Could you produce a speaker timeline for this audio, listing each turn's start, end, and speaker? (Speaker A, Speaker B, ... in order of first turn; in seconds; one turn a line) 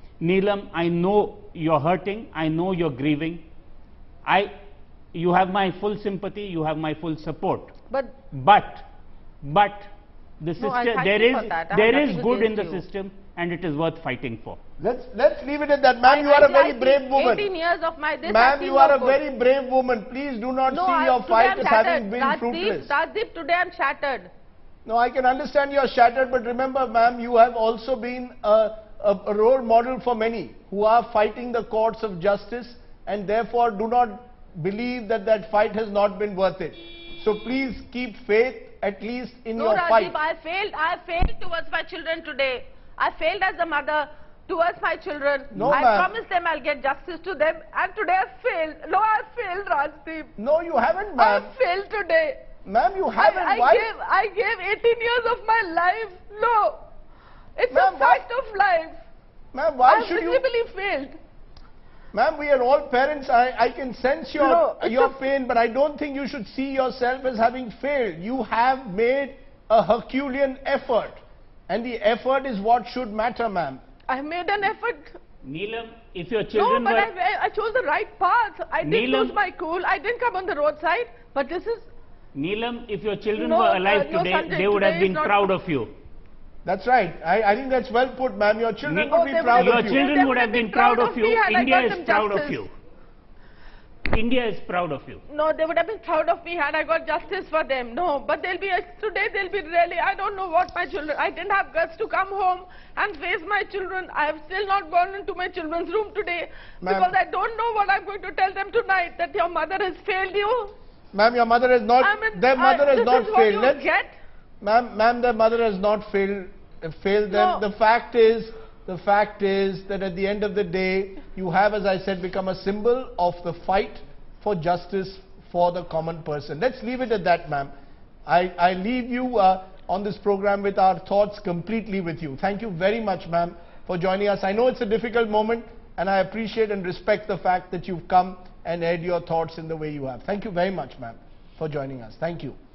Speaker A: 0.2-3.4
Speaker A: 4.2-4.5
Speaker A: 5.1-7.7
Speaker B: 7.9-8.2
Speaker A: 8.3-8.9
Speaker A: 9.4-9.9
Speaker A: 10.4-14.6
Speaker B: 10.6-12.8
Speaker C: 14.8-17.5
Speaker B: 16.1-19.2
Speaker C: 18.2-22.9
Speaker B: 20.7-24.3
Speaker C: 24.9-40.1
Speaker B: 39.6-50.3
Speaker C: 45.5-46.1
Speaker C: 50.4-51.5
Speaker B: 51.2-52.4
Speaker C: 52.6-53.9
Speaker B: 53.2-56.8
Speaker B: 57.5-59.0
Speaker C: 57.7-58.2
Speaker C: 59.5-60.4
Speaker B: 59.9-61.2
Speaker C: 62.1-73.8
Speaker B: 64.4-65.2
Speaker B: 74.1-75.2
Speaker A: 75.4-77.1
Speaker B: 76.5-81.9
Speaker A: 78.8-79.3
Speaker A: 82.3-85.9
Speaker B: 83.3-85.5
Speaker C: 86.6-90.0
Speaker B: 88.8-92.6
Speaker A: 89.6-92.7
Speaker A: 94.1-95.2
Speaker B: 95.3-110.7
Speaker C: 106.8-107.1
Speaker C: 111.1-113.8
Speaker B: 112.0-114.2
Speaker C: 114.6-127.7
Speaker B: 117.3-117.6
Speaker C: 128.2-142.6